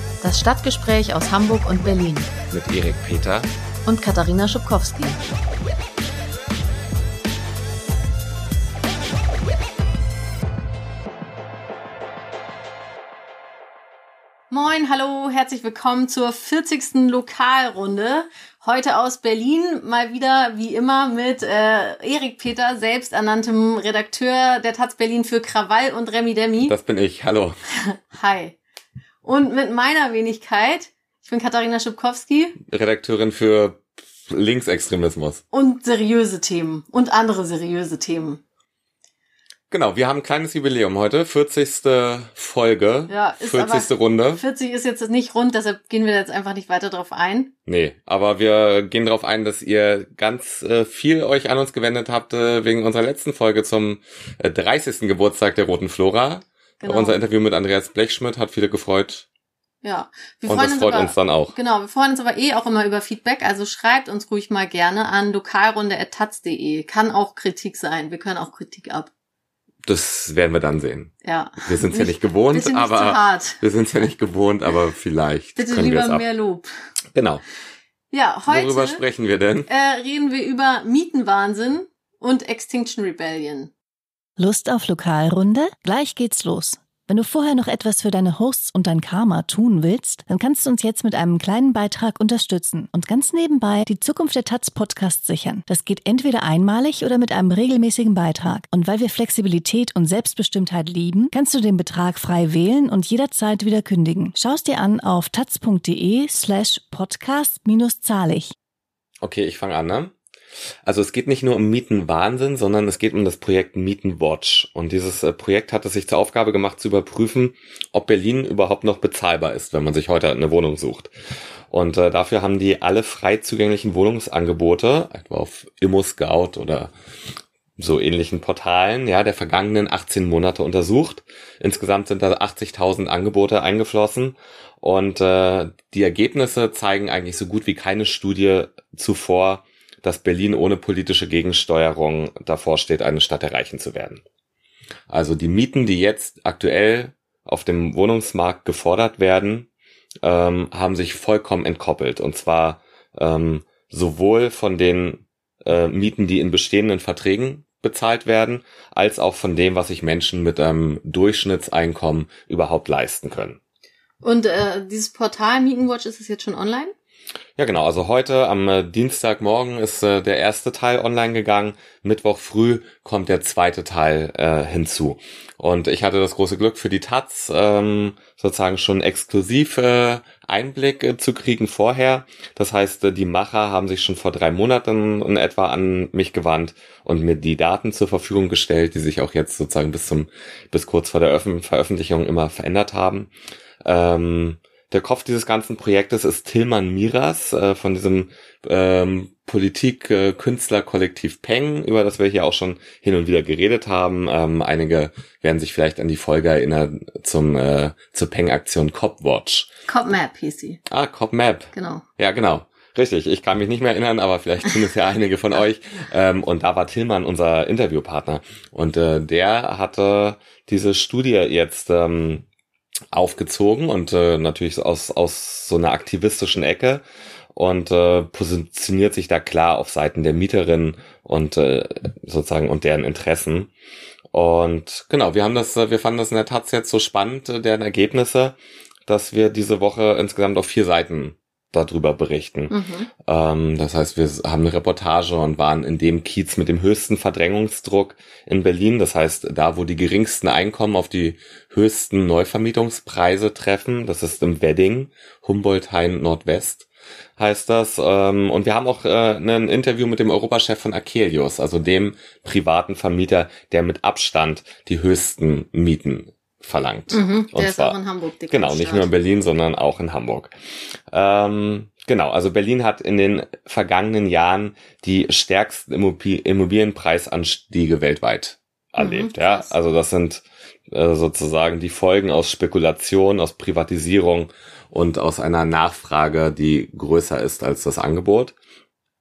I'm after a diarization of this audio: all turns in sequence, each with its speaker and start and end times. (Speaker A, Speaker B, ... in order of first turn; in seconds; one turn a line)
Speaker A: 0.2-2.3
Speaker B: 2.5-3.5
Speaker A: 3.9-5.2
Speaker A: 14.5-26.8
Speaker B: 26.6-27.6
Speaker A: 27.9-28.6
Speaker A: 29.2-32.6
Speaker B: 32.7-35.4
Speaker A: 35.5-38.4
Speaker B: 39.7-44.4
Speaker A: 43.1-47.5
Speaker B: 47.7-59.3
Speaker A: 56.8-57.2
Speaker A: 59.8-69.1
Speaker B: 60.5-61.5
Speaker B: 69.9-76.2
Speaker A: 71.2-73.6
Speaker A: 75.6-76.7
Speaker B: 77.1-77.4
Speaker A: 78.1-79.0
Speaker B: 78.5-79.7
Speaker A: 79.7-83.7
Speaker C: 84.4-108.5
Speaker B: 109.2-110.1
Speaker B: 110.9-121.1
Speaker B: 121.7-126.9
Speaker B: 127.8-144.2
Speaker B: 145.1-149.7
Speaker B: 150.2-163.6
Speaker A: 164.2-166.9
Speaker B: 167.6-193.3
Speaker B: 193.8-209.7
Speaker A: 209.9-210.8
Speaker B: 210.9-222.5
Speaker A: 211.7-212.0
Speaker B: 223.1-227.0
Speaker B: 227.6-233.7
Speaker B: 234.3-238.6
Speaker B: 239.1-256.9
Speaker A: 242.7-243.1
Speaker B: 257.4-268.0
Speaker A: 267.1-269.1
Speaker B: 268.5-270.5
Speaker B: 271.1-288.5
Speaker A: 279.0-279.7